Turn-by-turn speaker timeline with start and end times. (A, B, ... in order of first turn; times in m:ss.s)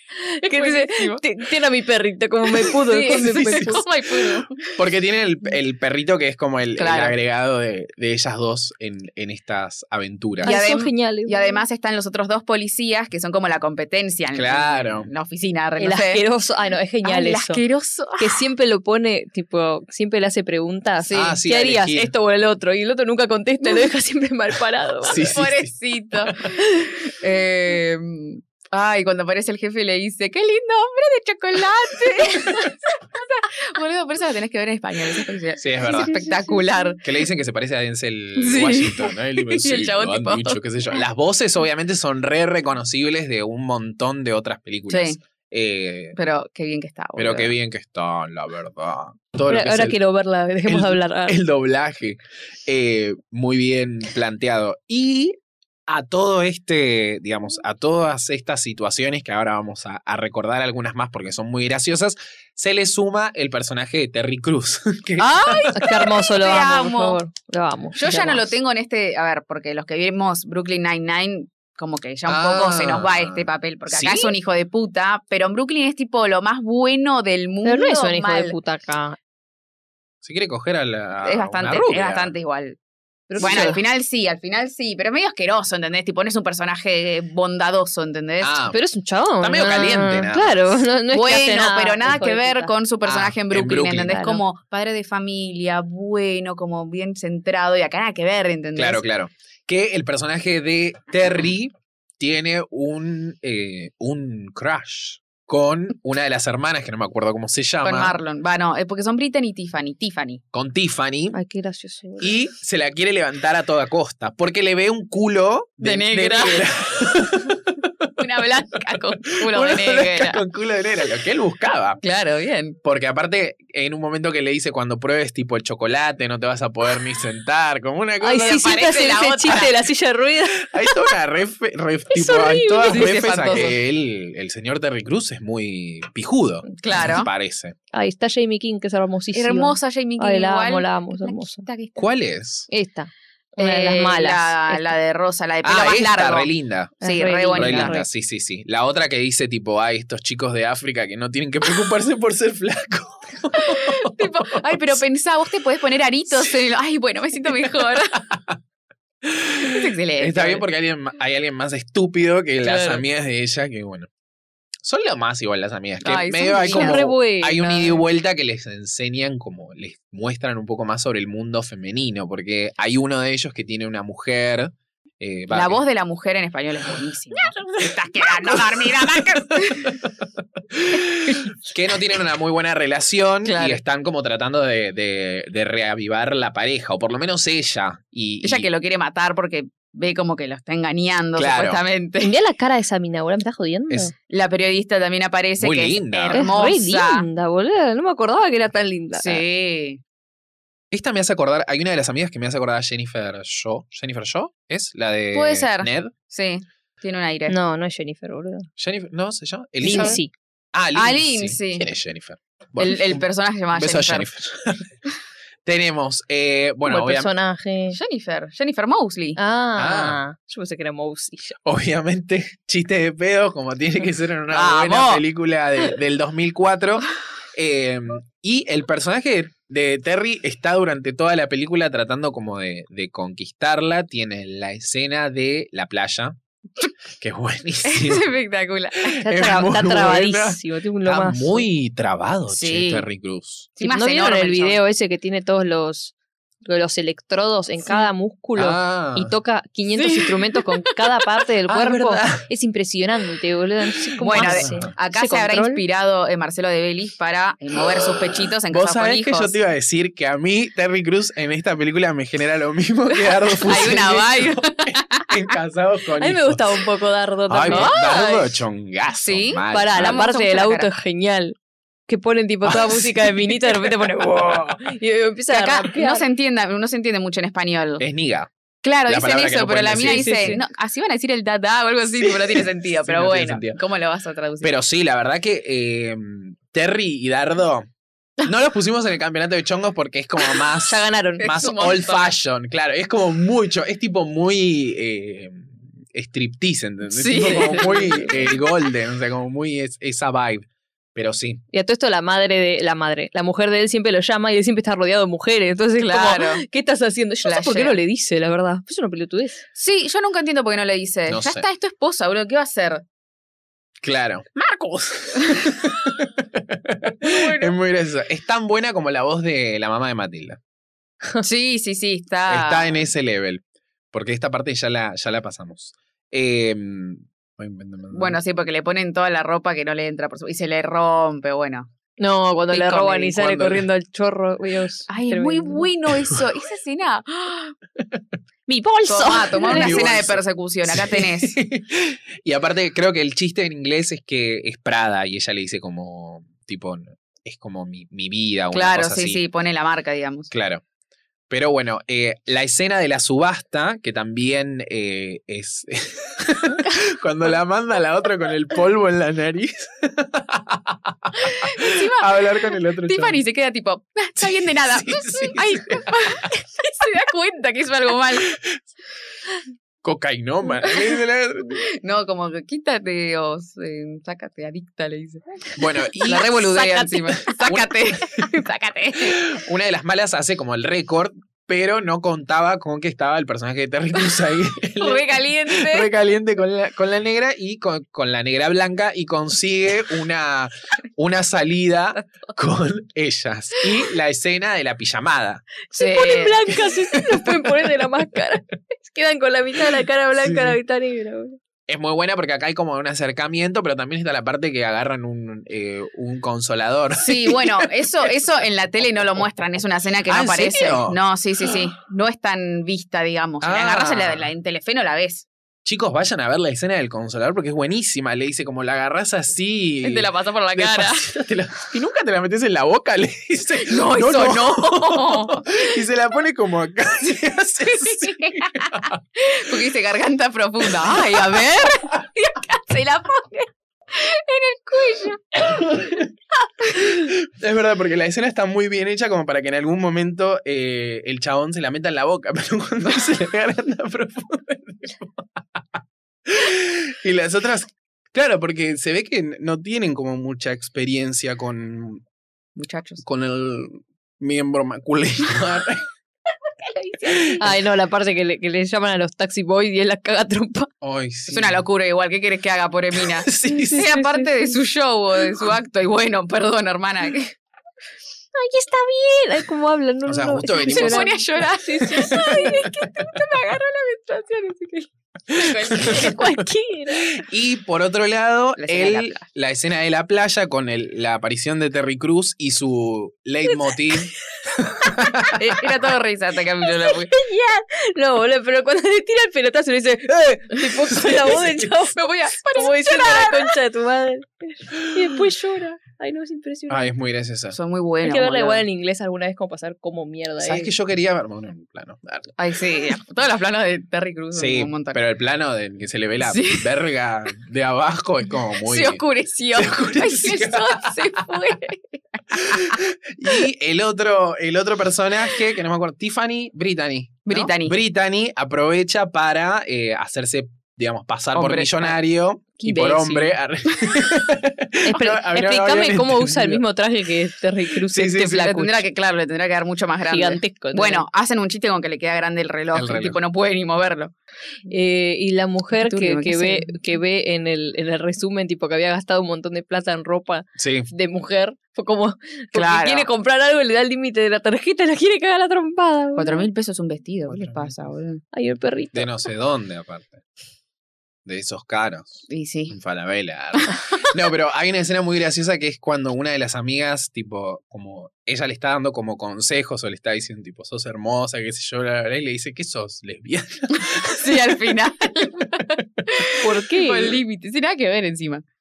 0:00.2-0:03.8 A
0:00.4-0:01.2 B
0:02.5-0:04.6 B
0:04.7-0:10.5 C
0:06.8-0:07.2 B
0:10.4-0:11.6 A
0:10.4-0:16.2 B
0:14.3-0:15.1 C
0:15.8-0:17.6 A
0:17.0-0:18.4 B
0:18.2-0:25.2 A
0:21.0-0:21.4 B
0:21.1-0:22.1 C
0:25.0-0:26.5 C
0:25.2-0:37.0 B
0:35.6-0:36.1 C
0:36.0-0:36.6 A
0:37.0-0:46.2 C
0:38.4-0:40.6 B
0:44.9-0:45.2 B
0:46.2-0:47.5 B
0:47.2-0:50.0 C
0:49.5-0:51.4 A
0:50.7-0:55.4 C
0:55.9-1:06.2 C
1:05.2-1:07.2 B
1:05.7-1:08.5 A
1:08.0-1:18.5 B
1:12.3-1:14.3 C
1:17.6-1:19.2 A
1:20.2-1:22.3 C
1:21.2-1:22.8 B
1:23.3-1:23.8 A
1:23.4-1:28.6 B
1:23.4-1:23.7 C
1:28.4-1:28.8 C
1:28.7-1:32.7 A
1:29.4-1:30.8 C
1:31.1-1:39.0 B
1:33.0-1:34.1 C
1:34.0-1:34.4 A
1:38.8-1:48.2 C
1:47.8-1:50.4 B
1:50.5-1:51.4 C
1:51.3-1:52.3 A
1:52.2-1:58.2 C
1:55.8-1:56.7 B
1:58.2-2:00.4 B
1:59.2-2:02.0 C
2:02.0-2:02.8 B
2:02.8-2:08.7 C
2:08.2-2:11.1 A
2:08.4-2:09.7 B
2:10.6-2:17.8 C
2:12.1-2:13.7 A
2:12.9-2:13.8 B
2:16.8-2:17.3 B
2:17.9-2:21.6 A
2:19.3-2:22.0 B
2:22.0-2:22.7 C
2:22.7-2:25.0 A
2:23.6-2:26.5 B
2:25.6-2:27.0 C
2:27.0-2:28.0 B
2:27.0-2:28.1 A
2:27.5-2:35.0 C
2:33.6-2:38.2 B
2:37.6-2:38.6 C
2:39.2-2:44.1 C
2:39.6-2:40.6 B
2:42.6-2:43.0 B
2:44.8-2:55.8 C
2:46.0-2:48.1 B
2:46.6-2:47.6 A
2:55.5-3:00.0 B
2:57.3-2:58.6 A
2:59.8-3:00.1 C
3:00.7-3:08.7 C
3:03.4-3:03.8 B
3:08.4-3:12.3 B
3:11.4-3:11.8 C
3:12.2-3:14.1 A
3:14.3-3:17.2 B
3:15.6-3:16.5 C
3:16.3-3:19.4 A
3:19.2-3:20.0 B
3:20.9-3:26.1 C
3:25.3-3:27.6 B
3:27.5-3:28.7 A
3:28.8-3:30.2 C
3:29.8-3:30.3 A
3:29.8-3:30.2 B
3:30.7-3:35.0 C
3:30.9-3:31.9 B
3:32.8-3:34.3 B
3:35.6-3:37.3 C
3:36.8-3:38.0 A
3:37.9-3:39.4 B
3:39.4-3:41.6 A
3:39.8-3:40.2 C
3:41.6-3:56.4 C
3:44.5-3:45.2 B
3:57.2-3:58.3 C
3:57.8-3:59.2 B
3:59.0-4:03.7 C
3:59.2-4:01.6 A
4:02.5-4:03.0 B
4:03.8-4:04.8 B
4:03.8-4:15.8 A
4:08.6-4:09.3 C
4:09.9-4:11.0 B
4:11.7-4:12.4 C
4:14.2-4:19.6 B
4:14.3-4:14.9 C
4:17.8-4:26.8 C
4:23.6-4:25.3 B
4:26.2-4:28.5 A
4:27.5-4:30.3 C
4:27.6-4:28.4 B
4:29.2-4:30.9 B
4:29.7-4:31.6 A
4:32.1-4:36.2 A
4:32.6-4:33.8 C
4:35.5-4:38.0 B
4:38.0-4:38.5 C
4:38.8-4:44.8 B
4:39.1-4:40.6 C
4:40.1-4:40.6 A
4:42.1-4:43.8 C
4:44.6-4:47.9 C
4:48.4-5:01.6 C
4:50.8-4:51.7 A
4:51.4-4:52.3 B
4:57.1-4:58.5 B
4:57.8-4:58.2 A
5:01.7-5:09.6 A
5:06.0-5:06.6 B
5:07.4-5:08.0 B
5:09.8-5:13.0 B
5:11.3-5:11.6 C
5:14.0-5:20.6 C
5:17.2-5:17.7 B
5:21.4-5:23.1 B
5:22.5-5:28.4 C
5:28.1-5:31.9 B
5:32.2-5:35.9 A
5:32.7-5:33.4 B
5:33.4-5:33.8 C
5:35.1-5:37.7 B
5:38.0-5:38.2 C
5:38.7-5:40.2 A
5:39.1-5:41.6 B
5:39.5-5:49.4 C
5:48.7-5:50.5 B
5:50.5-5:50.8 C
5:51.5-6:03.4 C
6:01.4-6:08.5 B
6:04.4-6:06.5 C
6:08.5-6:08.8 C
6:10.0-6:11.8 C
6:11.8-6:15.6 B
6:15.8-6:18.5 C
6:16.2-6:19.5 B
6:16.8-6:17.0 A
6:19.2-6:35.6 C
6:25.0-6:26.1 B
6:35.9-6:41.6 A
6:36.0-6:36.7 B
6:37.2-6:37.5 C
6:40.4-6:40.8 C
6:41.9-6:47.9 C
6:47.1-6:55.4 B
6:50.2-6:51.8 C
6:53.6-6:54.5 C
6:55.8-7:09.2 C
7:00.0-7:01.3 B
7:03.8-7:06.0 B
7:07.8-7:16.0 B
7:10.9-7:11.6 C
7:15.6-7:16.3 C
7:16.8-7:17.1 B
7:16.9-7:32.2 C
7:32.8-7:33.2 B
7:33.2-7:36.0 C
7:37.0-7:37.5 B
7:37.2-7:37.6 C
7:37.3-7:40.9 A
7:41.0-7:41.8 C
7:41.5-7:47.6 B
7:43.1-7:44.1 C
7:43.7-7:44.8 A
7:48.5-7:53.0 A
7:50.2-7:51.3 C
7:50.9-7:56.4 B
7:55.5-7:56.5 C
7:55.8-7:57.4 A
7:57.2-8:05.7 C
7:58.8-7:59.4 B
8:05.5-8:07.3 B
8:06.8-8:17.0 A
8:12.1-8:13.8 B
8:16.9-8:17.8 C
8:17.7-8:18.8 B
8:18.2-8:20.9 A
8:20.6-8:22.5 C
8:22.6-8:25.2 B
8:24.5-8:29.2 C
8:26.4-8:26.9 B
8:28.8-8:33.0 B
8:29.7-8:31.6 C
8:32.5-8:46.8 C
8:37.4-8:38.0 B
8:41.5-8:42.2 B
8:42.8-8:43.5 A
8:45.0-8:49.0 A
8:48.0-8:48.7 C
8:48.4-8:54.3 B
8:50.3-8:51.2 A
8:52.9-8:53.4 C
8:54.9-9:06.7 A
8:55.9-8:57.0 B
9:00.8-9:01.1 C
9:02.7-9:03.3 B
9:06.4-9:08.4 B
9:07.5-9:08.1 C
9:08.5-9:09.3 A
9:09.1-9:10.4 C
9:11.4-9:24.9 C
9:12.5-9:13.0 B
9:24.3-9:28.6 B
9:26.6-9:27.4 A